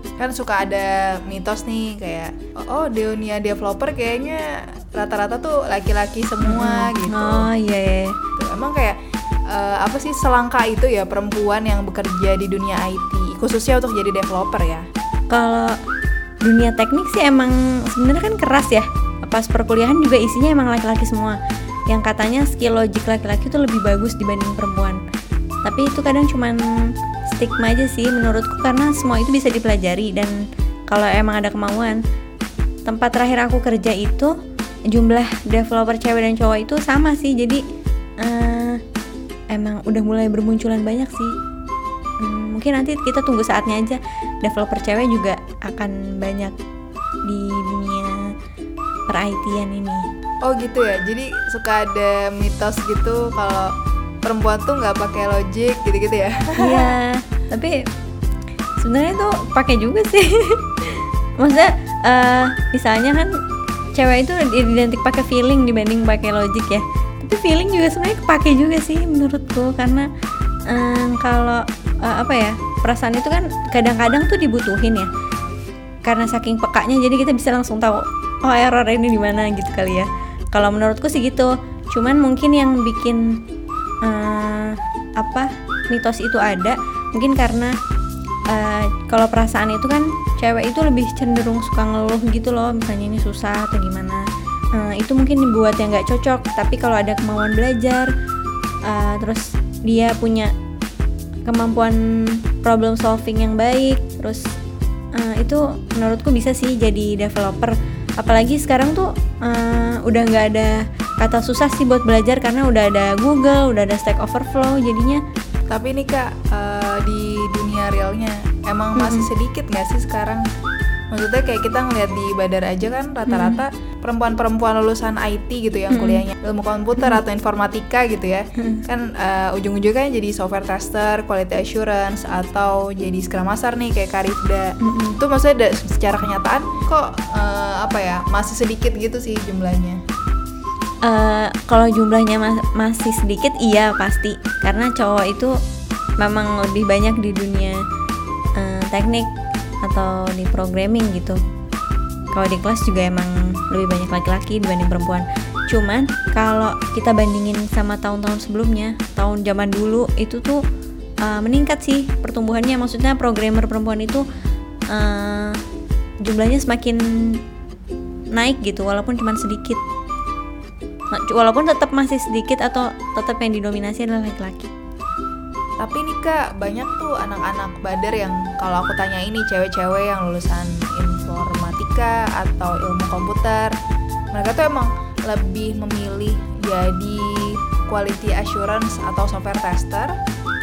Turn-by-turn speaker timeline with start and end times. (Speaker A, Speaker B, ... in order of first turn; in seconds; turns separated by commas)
Speaker A: 0.2-7.5, Speaker B: 6.4-8.2, Speaker A: 8.3-9.0, Speaker A: 9.5-14.9, Speaker B: 15.3-15.8, Speaker B: 16.4-21.4, Speaker B: 21.9-25.0, Speaker B: 25.6-30.3, Speaker B: 30.9-32.0, Speaker B: 32.9-34.3, Speaker B: 34.9-37.6, Speaker B: 38.2-38.8, Speaker B: 39.5-41.3, Speaker B: 42.2-46.5, Speaker B: 47.2-48.2, Speaker B: 49.1-50.1, Speaker A: 50.4-53.7, Speaker A: 54.2-56.9, Speaker B: 56.6-57.8, Speaker B: 58.8-63.3, Speaker B: 64.0-70.1, Speaker B: 70.7-75.1, Speaker B: 76.0-83.4, Speaker B: 84.0-87.7, Speaker B: 88.5-98.1, Speaker B: 98.8-100.5, Speaker B: 101.5-104.5, Speaker B: 105.1-115.2, Speaker A: 115.7-120.4, Speaker B: 119.0-119.2, Speaker A: 121.1-140.0, Speaker B: 123.3-123.6, Speaker B: 125.9-126.2, Speaker B: 134.8-135.2, Speaker B: 141.0-145.5, Speaker B: 146.2-147.8, Speaker B: 148.6-149.3, Speaker B: 149.8-151.4, Speaker B: 152.3-160.6, Speaker B: 161.2-164.2, Speaker B: 164.9-165.6, Speaker B: 166.2-167.4, Speaker B: 168.3-169.8, Speaker B: 171.1-174.7, Speaker A: 175.8-183.7, Speaker A: 184.3-190.2